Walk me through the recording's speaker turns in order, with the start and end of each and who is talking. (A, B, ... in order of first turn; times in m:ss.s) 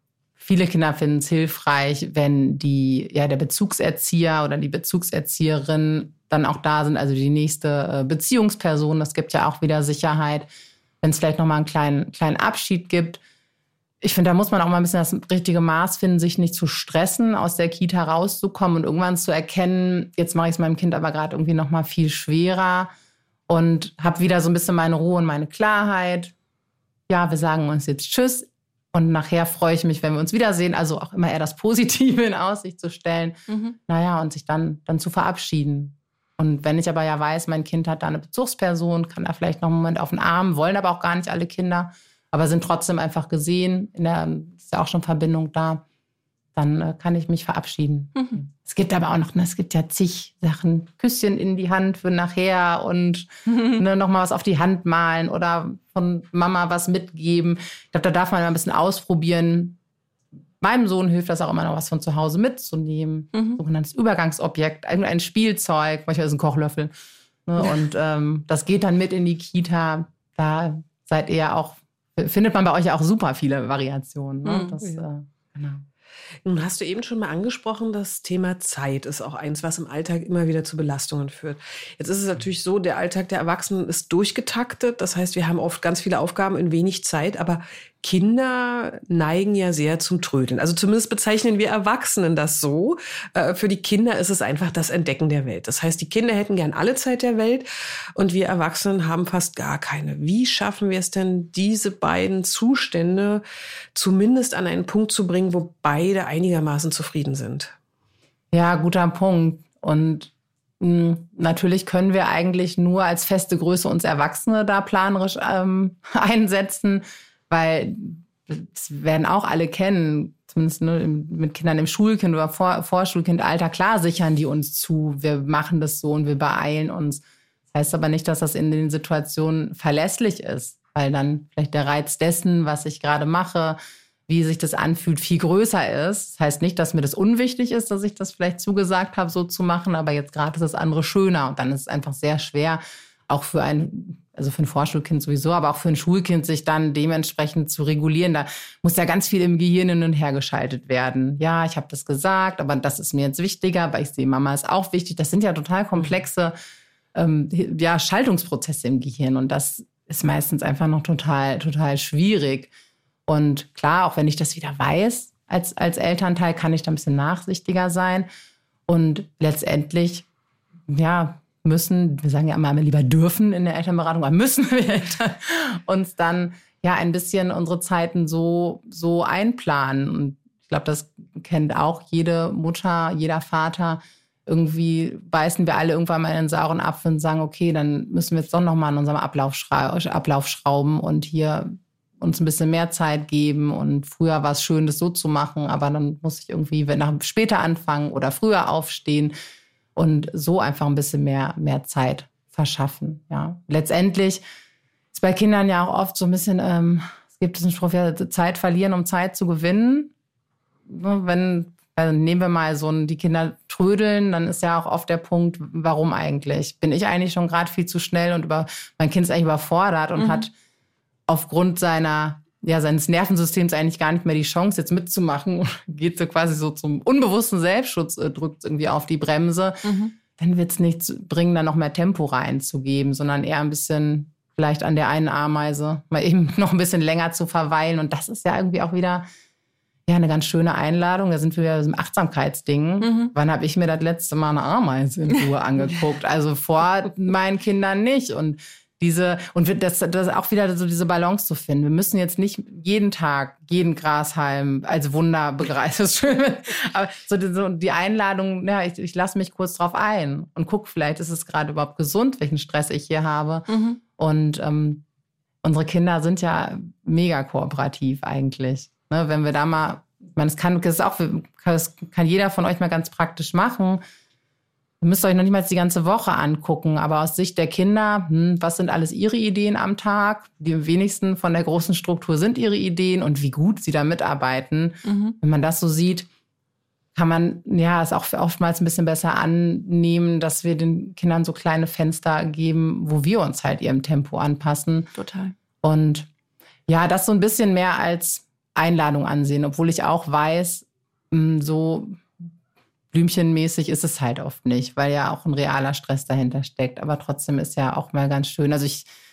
0:00.4-0:10.5 A
0:11.0-0:13.2 A
0:14.0-0:22.9 A
0:23.5-0:26.3 A
0:27.1-0:45.8 A
0:33.5-0:33.8 B
0:46.5-0:59.8 A
0:53.5-0:53.8 B
1:00.6-1:06.9 A
1:03.3-1:03.6 B
1:07.4-1:15.8 A
1:14.4-1:14.7 B
1:16.4-1:43.4 C
1:43.9-1:47.7 C
1:48.5-2:36.6 A
2:37.1-2:42.7 A
2:43.3-2:48.3 A
2:48.9-2:50.2 A
2:50.9-3:19.3 A
3:20.0-3:24.4 A
3:25.1-3:30.1 A
3:30.9-3:40.5 A
3:40.2-3:40.4 B
3:41.3-3:59.3 A
3:49.8-3:50.1 B
4:00.1-4:25.0 A
4:03.0-4:03.3 B
4:23.7-4:24.0 B
4:25.6-4:34.0 A
4:35.0-4:46.3 A
4:45.0-4:45.4 B
4:47.1-4:55.1 A
4:55.2-4:55.5 B
4:55.8-4:56.3 A
4:56.9-5:02.4 A
5:03.1-5:09.0 A